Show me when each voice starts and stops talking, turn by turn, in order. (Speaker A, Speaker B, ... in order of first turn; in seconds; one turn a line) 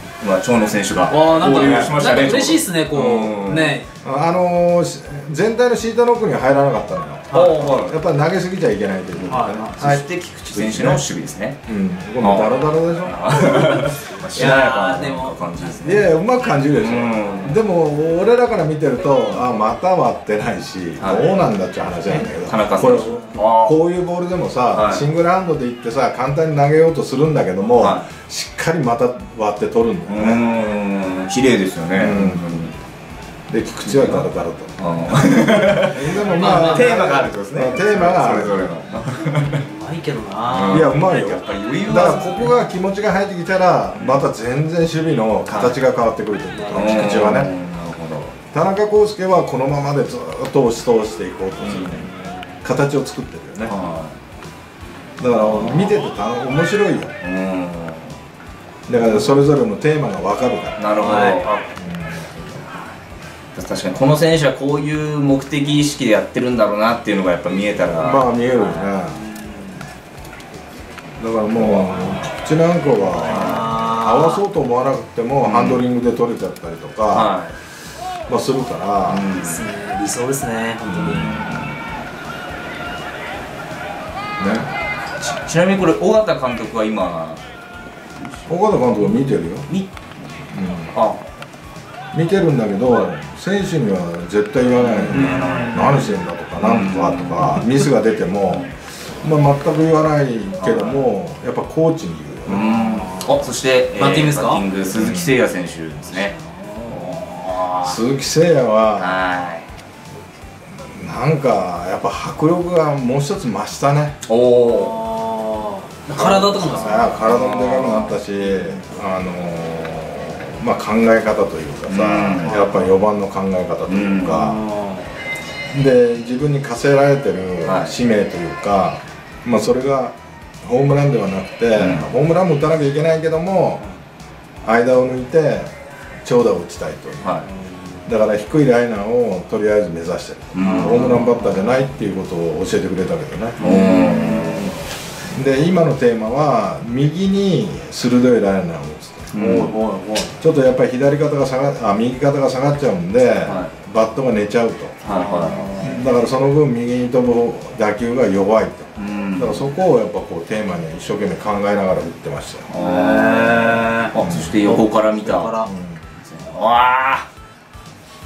Speaker A: 0.2-3.8
Speaker B: 1.1-3.9
Speaker C: 1.6-1.9
Speaker C: 4.0-11.0
Speaker B: 7.3-7.8
Speaker A: 7.3-8.0
Speaker B: 9.3-9.8
Speaker A: 9.8-11.6
Speaker C: 11.7-13.9
Speaker A: 12.2-16.1
Speaker B: 14.3-15.8
Speaker C: 15.8-30.5
Speaker A: 16.8-17.6
Speaker A: 21.0-21.3
Speaker A: 22.2-23.8
Speaker B: 22.8-23.4
Speaker A: 24.7-25.1
Speaker A: 27.8-28.1
Speaker A: 30.1-32.7
Speaker C: 31.9-32.6
Speaker C: 33.5-38.6
Speaker A: 33.9-34.3
Speaker A: 34.8-39.6
Speaker B: 36.2-37.1
Speaker B: 39.4-41.0
Speaker A: 40.5-42.6
Speaker C: 40.7-47.5
Speaker A: 43.9-44.2
Speaker A: 45.5-45.8
Speaker B: 46.5-46.9
Speaker A: 46.7-48.4
Speaker C: 48.5-52.1
Speaker A: 51.6-52.0
Speaker B: 52.0-52.5
Speaker C: 52.6-53.7
Speaker A: 53.7-54.2
Speaker C: 55.2-57.1
Speaker B: 55.3-55.9
Speaker A: 57.2-58.2
Speaker C: 58.9-60.9
Speaker B: 59.0-59.4
Speaker A: 60.8-61.7
Speaker B: 61.0-61.5
Speaker C: 61.8-62.3
Speaker A: 62.4-62.9
Speaker A: 63.5-68.9
Speaker C: 68.0-69.2
Speaker B: 69.1-69.8
Speaker C: 71.2-77.3
Speaker A: 71.5-72.0
Speaker B: 73.2-74.4
Speaker A: 73.3-73.7
Speaker A: 75.4-75.8
Speaker A: 77.1-77.6
Speaker C: 78.3-79.3
Speaker A: 79.1-79.6
Speaker B: 79.3-81.5
Speaker C: 80.9-81.3
Speaker A: 81.1-81.8
Speaker C: 84.4-84.7
Speaker A: 85.2-87.4
Speaker A: 88.2-90.0
Speaker C: 88.5-89.7
Speaker C: 90.5-90.9
Speaker A: 90.9-91.2
Speaker C: 92.1-102.6
Speaker A: 94.8-97.9
Speaker B: 95.1-96.0
Speaker A: 98.4-98.7
Speaker A: 100.6-101.1
Speaker A: 102.5-106.3
Speaker B: 102.5-104.7
Speaker C: 104.9-105.4
Speaker B: 106.0-108.0
Speaker C: 107.8-109.2
Speaker A: 109.0-109.7
Speaker C: 110.9-114.2
Speaker A: 114.2-115.0
Speaker B: 114.6-117.2
Speaker C: 116.1-124.6
Speaker A: 116.6-118.8
Speaker A: 121.9-122.6
Speaker B: 122.5-122.9
Speaker A: 123.9-124.5
Speaker B: 124.3-125.1
Speaker C: 125.7-133.8
Speaker A: 127.6-128.0
Speaker A: 131.8-132.1
Speaker C: 134.6-135.7
Speaker C: 136.2-137.3
Speaker A: 137.2-137.5
Speaker B: 137.5-138.1
Speaker C: 138.1-143.6
Speaker A: 140.5-141.2
Speaker B: 140.6-141.8
Speaker A: 143.6-144.7
Speaker B: 143.6-144.8
Speaker C: 145.3-149.3
Speaker A: 149.3-149.8
Speaker B: 149.4-150.4
Speaker C: 150.4-155.0
Speaker A: 153.4-153.7
Speaker A: 155.0-155.9
Speaker B: 155.1-156.0
Speaker C: 155.8-162.7
Speaker A: 159.0-159.7
Speaker A: 162.7-165.6
Speaker B: 162.8-165.7
Speaker C: 164.2-164.6
Speaker C: 165.7-166.1
Speaker A: 166.2-167.3